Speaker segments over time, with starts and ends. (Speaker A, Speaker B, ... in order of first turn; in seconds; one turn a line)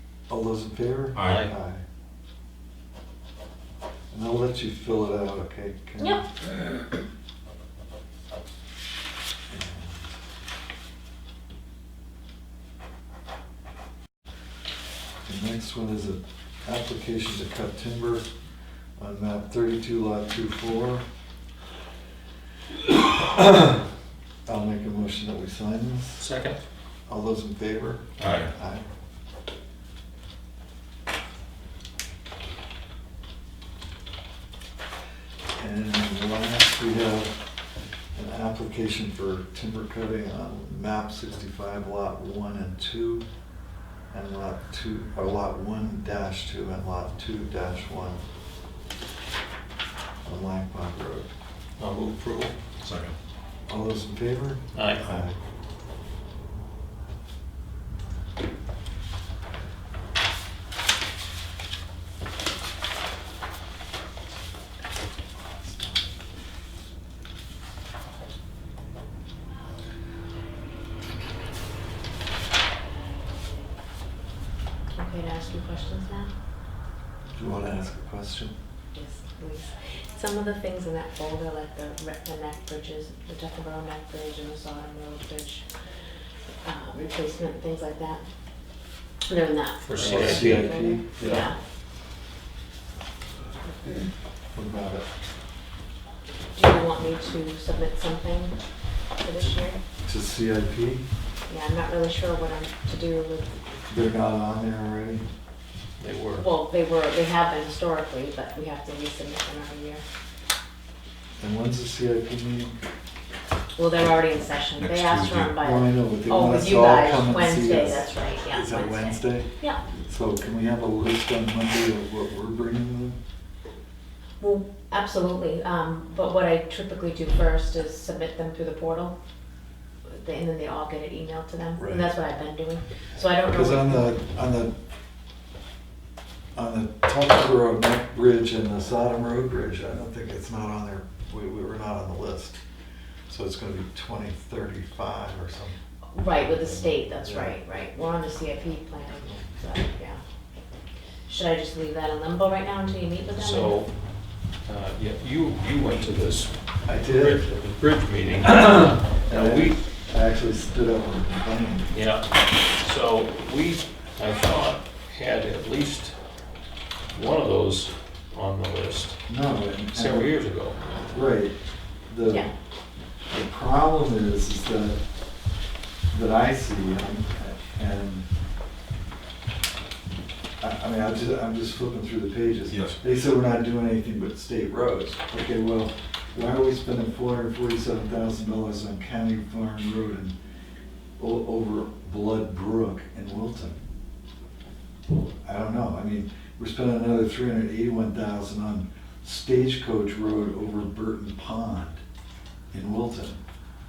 Speaker A: 0.3-1.8
Speaker B: 1.1-1.4
Speaker C: 1.2-1.5
Speaker A: 4.1-6.3
Speaker A: 9.5-10.1
Speaker A: 15.3-18.3
Speaker A: 19.0-21.1
Speaker A: 22.9-23.8
Speaker A: 24.5-26.2
Speaker C: 26.2-26.6
Speaker A: 27.1-28.8
Speaker B: 28.2-28.5
Speaker A: 35.6-37.4
Speaker A: 38.1-43.2
Speaker A: 44.1-48.2
Speaker A: 50.2-51.3
Speaker C: 51.8-52.6
Speaker B: 52.8-53.1
Speaker A: 53.7-55.4
Speaker C: 54.8-55.2
Speaker A: 65.7-66.0
Speaker D: 75.0-76.3
Speaker A: 77.3-78.5
Speaker D: 78.9-85.7
Speaker D: 86.6-88.2
Speaker D: 89.3-91.6
Speaker C: 89.8-90.7
Speaker A: 90.0-91.5
Speaker A: 94.5-95.0
Speaker D: 96.5-98.6
Speaker D: 99.2-99.8
Speaker A: 100.0-101.0
Speaker D: 101.5-103.6
Speaker A: 103.9-105.2
Speaker C: 106.0-106.5
Speaker D: 106.4-110.0
Speaker A: 111.4-112.8
Speaker D: 113.8-119.8
Speaker B: 114.8-115.5
Speaker A: 115.6-119.5
Speaker A: 120.0-123.2
Speaker D: 124.4-129.2
Speaker D: 130.1-134.1
Speaker A: 131.8-132.1
Speaker A: 133.5-134.7
Speaker A: 136.6-142.6
Speaker A: 143.3-145.8
Speaker D: 146.1-150.2
Speaker A: 147.2-147.5
Speaker D: 151.3-153.8
Speaker C: 153.3-153.9
Speaker C: 154.7-156.6
Speaker A: 156.8-157.5
Speaker C: 157.1-159.8
Speaker A: 158.5-161.9
Speaker C: 161.9-166.2
Speaker C: 167.1-169.2
Speaker A: 169.3-170.3
Speaker C: 169.9-170.8
Speaker A: 171.1-171.6
Speaker A: 172.1-172.5
Speaker D: 172.3-172.5
Speaker A: 173.3-175.0
Speaker A: 176.1-178.3
Speaker A: 180.6-190.3
Speaker B: 182.7-183.0
Speaker A: 191.2-193.8
Speaker A: 195.4-202.0
Speaker A: 202.7-203.4